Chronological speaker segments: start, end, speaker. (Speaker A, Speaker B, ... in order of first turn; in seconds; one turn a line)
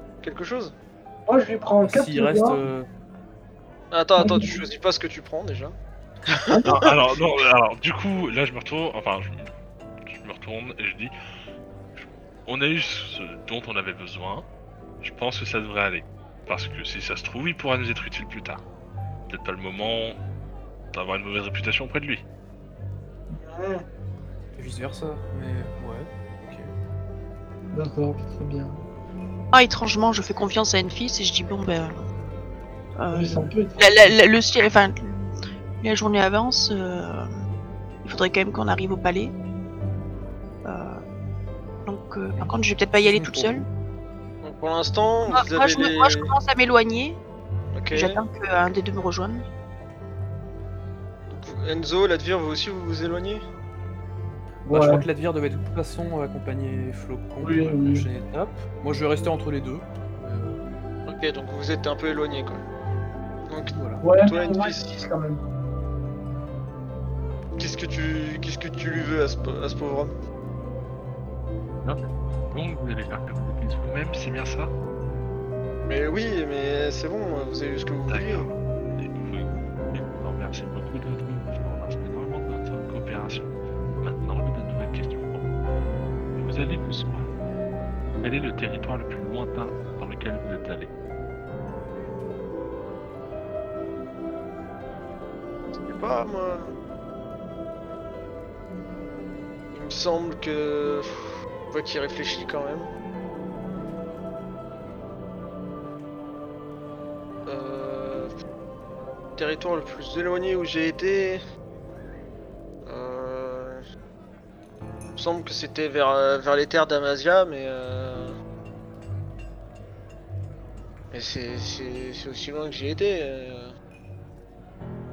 Speaker A: 0.2-0.7
Speaker B: 1.3-2.6
Speaker C: 1.8-2.9
Speaker A: 3.9-6.9
Speaker B: 4.2-4.6
Speaker D: 6.6-9.5
Speaker D: 10.1-11.1
Speaker D: 11.9-14.4
Speaker D: 15.0-18.6
Speaker D: 19.3-20.2
Speaker D: 20.9-22.2
Speaker B: 23.3-23.8
Speaker C: 24.6-26.7
Speaker B: 27.7-28.8
Speaker E: 29.5-32.0
Speaker E: 33.0-37.3
Speaker B: 33.1-34.2
Speaker E: 38.0-39.3
Speaker E: 40.6-41.0
Speaker E: 41.8-43.6
Speaker C: 42.4-43.6
Speaker A: 44.4-46.3
Speaker E: 45.3-47.2
Speaker A: 47.7-48.2
Speaker E: 47.9-49.4
Speaker A: 51.3-53.4
Speaker B: 54.7-55.0
Speaker C: 54.7-60.6
Speaker B: 57.4-58.1
Speaker A: 61.1-62.6
Speaker A: 63.5-64.9
Speaker C: 63.6-64.1
Speaker B: 64.0-65.5
Speaker A: 67.6-70.1
Speaker D: 71.8-74.7
Speaker A: 75.8-78.5
Speaker D: 78.1-85.5
Speaker D: 86.3-87.3
Speaker D: 88.2-90.9
Speaker A: 95.7-96.7
Speaker A: 99.7-101.1
Speaker A: 101.7-102.9
Speaker A: 107.5-108.3
Speaker A: 109.3-111.4
Speaker A: 112.8-113.8
Speaker A: 115.2-118.3
Speaker A: 121.1-123.7